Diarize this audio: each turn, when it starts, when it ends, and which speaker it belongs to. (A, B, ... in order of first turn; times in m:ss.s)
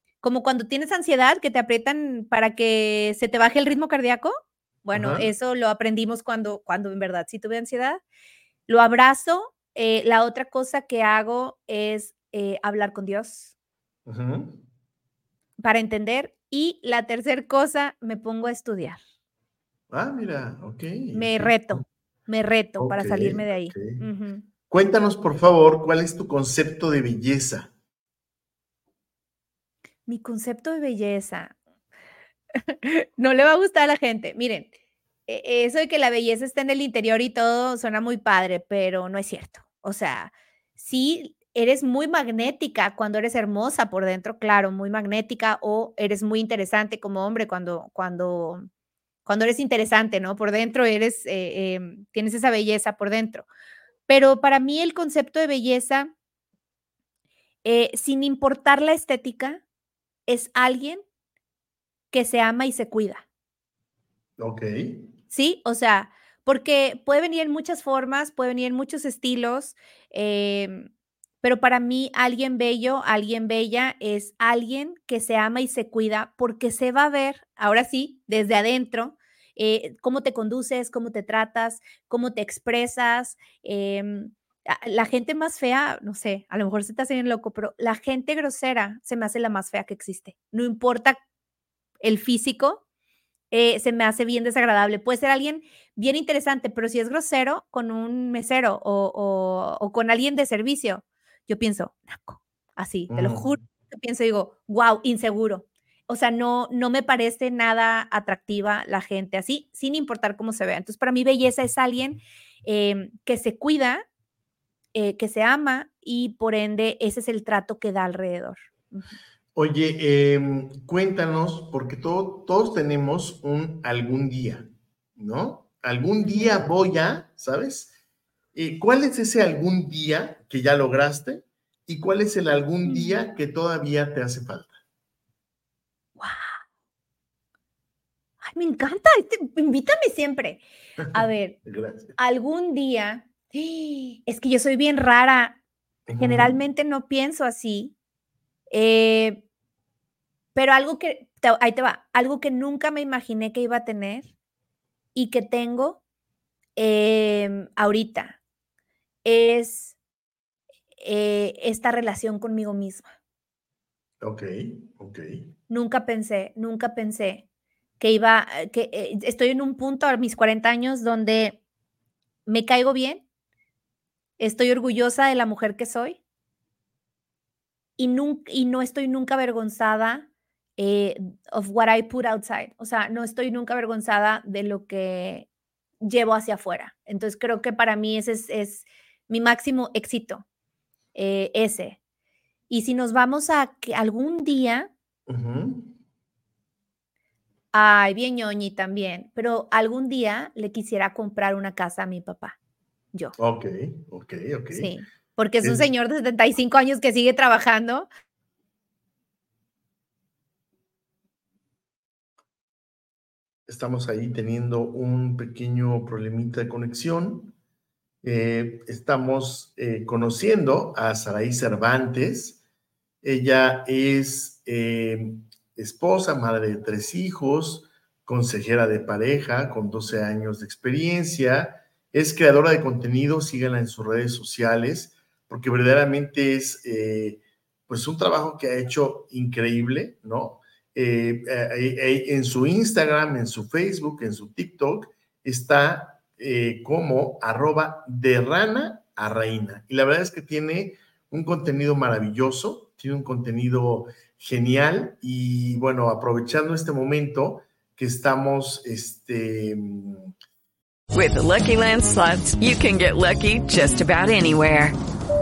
0:00.2-0:08.0 A
0:04.9-0:05.3 B
0:08.7-0:13.5 A
0:14.1-0:14.6 B
0:15.6-0:19.0 A
0:19.9-0:21.8 B
0:21.1-0:24.4 A
0:22.8-0:24.0 B
0:24.7-0:27.7 B
0:30.1-0:31.5 A
0:32.7-0:34.7 A
0:35.3-0:48.6 A
0:49.3-0:53.5 A
0:54.1-0:56.1 A
0:57.6-0:59.6 A
1:00.3-1:01.0 A
1:02.1-1:03.3 A
1:04.4-1:05.1 B
1:05.3-1:10.9 A
1:11.4-1:31.2 A
1:32.0-1:32.8 A
1:33.5-1:54.1 A
1:43.1-1:43.5 B
1:54.9-1:59.2 A
1:59.6-2:07.9 B
2:06.2-2:06.7 A
2:08.5-2:14.8 B
2:12.8-2:13.3 A
2:16.2-2:16.5 A
2:18.4-2:20.6 A
2:21.0-2:22.2 B
2:21.1-2:21.6 A
2:22.2-2:25.6 A
2:26.1-2:26.6 B
2:26.2-2:27.9 A
2:28.7-2:29.4 A
2:30.6-2:34.3 A
2:35.2-2:36.0 A
2:36.8-2:38.4 A
2:39.2-2:40.0 A
2:41.0-2:43.1 A
2:44.2-2:45.5 B
2:45.7-2:47.4 A
2:48.0-2:51.6 A
2:52.5-2:53.2 A
2:54.4-2:56.2 A
2:58.0-3:05.5 A
3:06.0-3:10.4 A
3:11.2-3:12.0 A
3:12.7-3:14.9 A
3:15.3-3:16.0 B
3:17.7-3:22.6 A
3:23.4-3:24.9 B
3:24.7-3:28.1 A
3:25.6-3:25.9 B
3:33.7-3:37.6 B
3:38.2-3:42.6 B
3:43.2-4:20.3 B
4:21.1-4:25.0 C